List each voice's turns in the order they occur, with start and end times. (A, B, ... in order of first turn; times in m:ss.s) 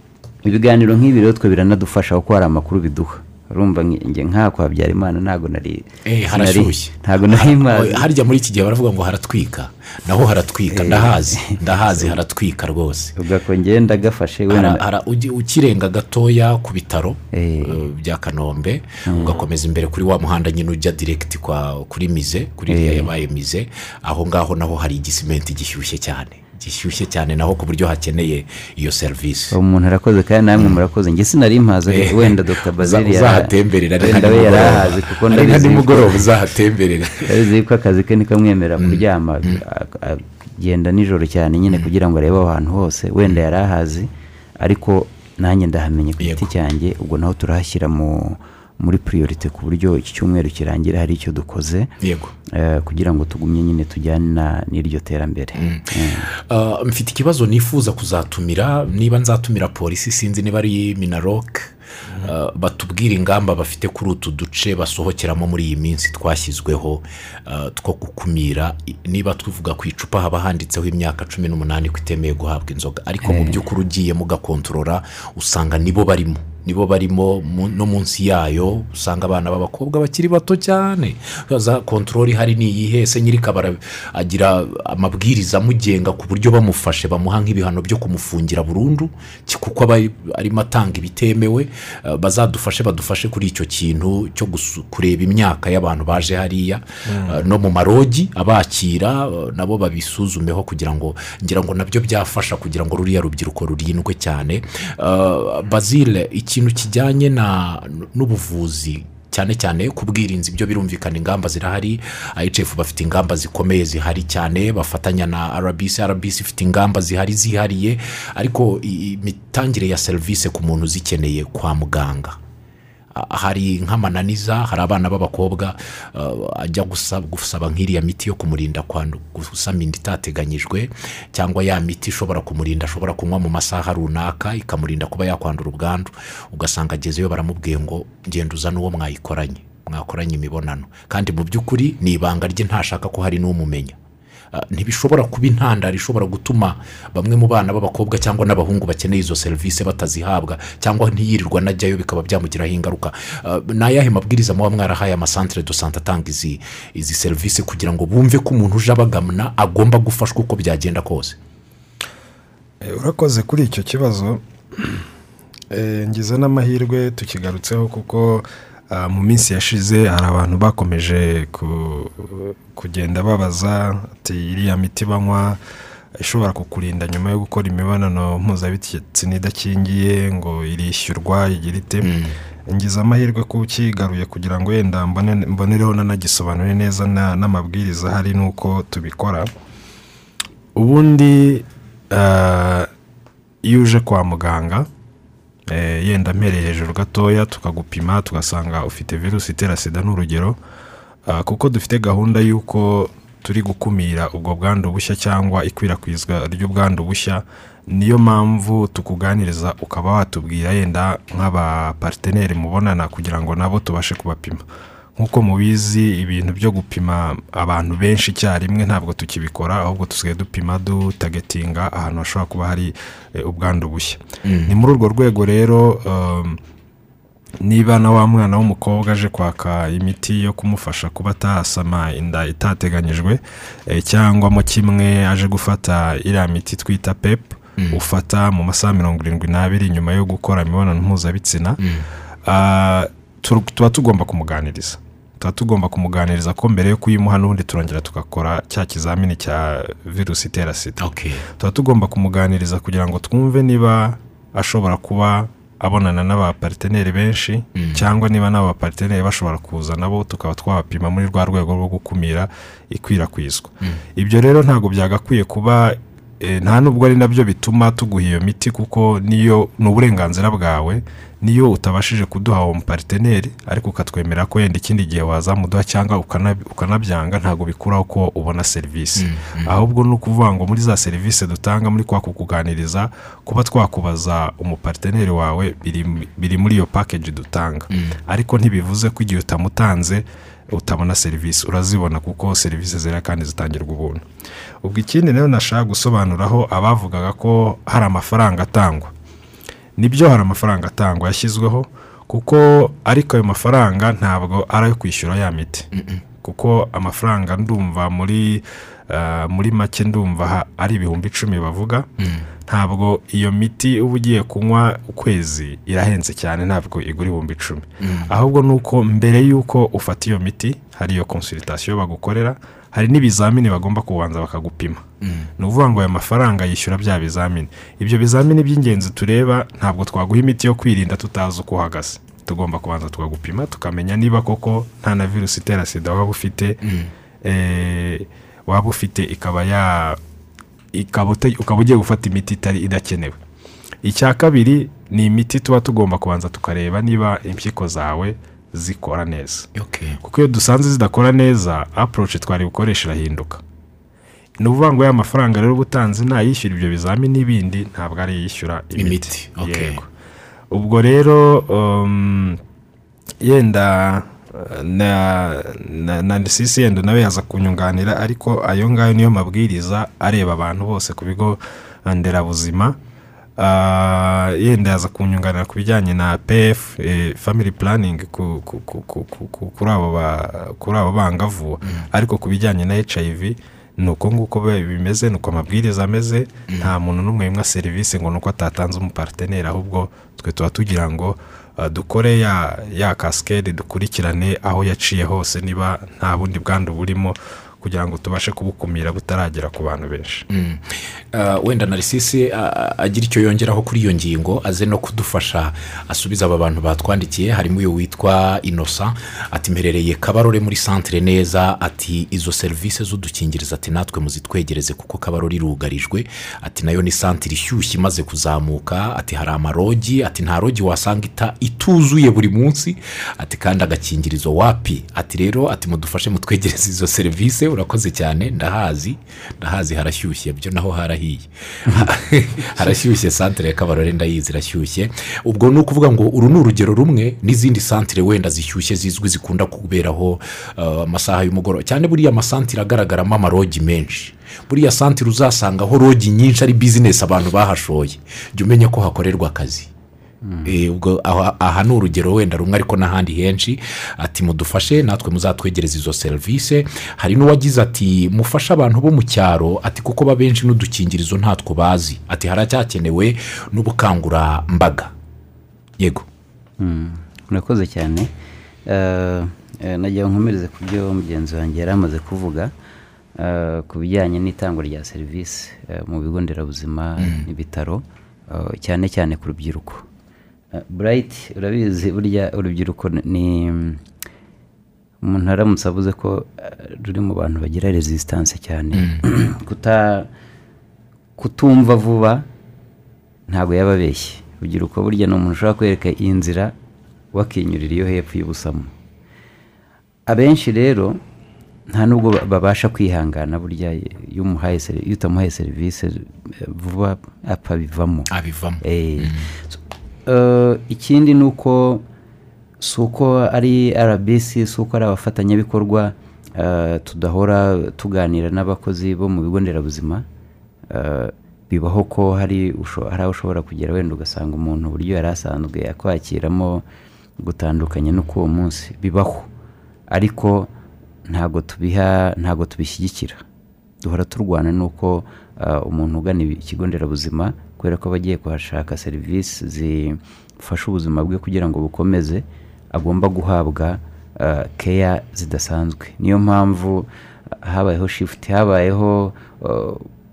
0:00.4-0:08.0 A
0:06.0-0:13.1 B
0:10.7-0:12.2 A
0:13.2-0:14.8 A
0:14.5-0:29.6 B
0:17.3-0:17.8 A
0:19.0-0:19.4 A
0:22.7-0:23.1 A
0:29.5-0:36.3 A
0:31.9-0:37.3 B
0:37.2-0:51.9 A
0:38.8-0:39.6 B
0:46.2-0:46.5 B
0:52.0-0:52.3 B
0:52.5-0:56.3 A
0:55.6-2:02.4 B
1:13.2-1:13.6 A
1:37.1-1:37.4 C
2:03.1-2:24.0 B
2:24.5-2:41.4 B
2:42.8-2:45.0 C
2:45.7-2:55.6 C
2:56.2-3:02.1 C
3:02.0-3:02.3 B
3:02.7-3:09.5 C
3:10.8-3:12.9 C
3:13.6-3:14.9 C
3:15.7-3:20.6 C
3:21.3-3:34.6 C
3:35.2-3:46.6 C
3:44.4-3:44.7 B
3:47.6-4:01.8 C
4:01.8-4:02.0 B
4:02.4-4:11.0 C
4:11.0-4:11.4 B
4:11.6-4:54.2 C
4:17.7-4:18.0 B
4:39.2-4:39.8 B
4:54.8-4:59.1 C
5:00.0-5:05.9 C
5:05.9-5:06.2 B
5:06.4-5:12.1 C
5:12.2-5:12.4 B
5:12.7-5:25.0 C
5:18.0-5:18.3 B
5:25.2-5:25.5 B
5:25.6-5:36.8 C
5:36.8-5:37.1 B
5:37.4-5:40.2 C
5:40.9-5:43.4 C
5:44.0-5:49.7 C
5:49.7-5:50.2 B
5:50.2-5:53.6 C
5:54.6-6:00.1 C
5:59.0-6:00.0 B
6:00.7-6:02.6 C
6:03.4-6:13.0 C
6:13.6-6:40.4 C
6:40.5-7:29.9 B
7:30.4-7:30.7 A
7:30.6-7:45.1 B
7:46.0-7:46.2 B
7:46.8-7:48.3 A
7:48.8-7:52.7 A
7:53.4-8:00.0 A
8:00.7-8:04.0 A
8:05.2-8:10.3 A
8:11.4-8:12.5 A
8:13.5-8:16.7 A
8:17.3-8:18.9 A
8:20.3-8:21.2 A
8:21.9-8:28.3 A
8:28.3-8:29.4 B
8:28.8-8:32.0 A
8:32.8-8:40.2 A
8:40.9-8:46.8 A
8:47.4-8:49.5 A
8:50.1-8:50.7 A
8:51.3-8:53.4 A
8:54.0-9:07.1 A
9:07.6-9:10.1 A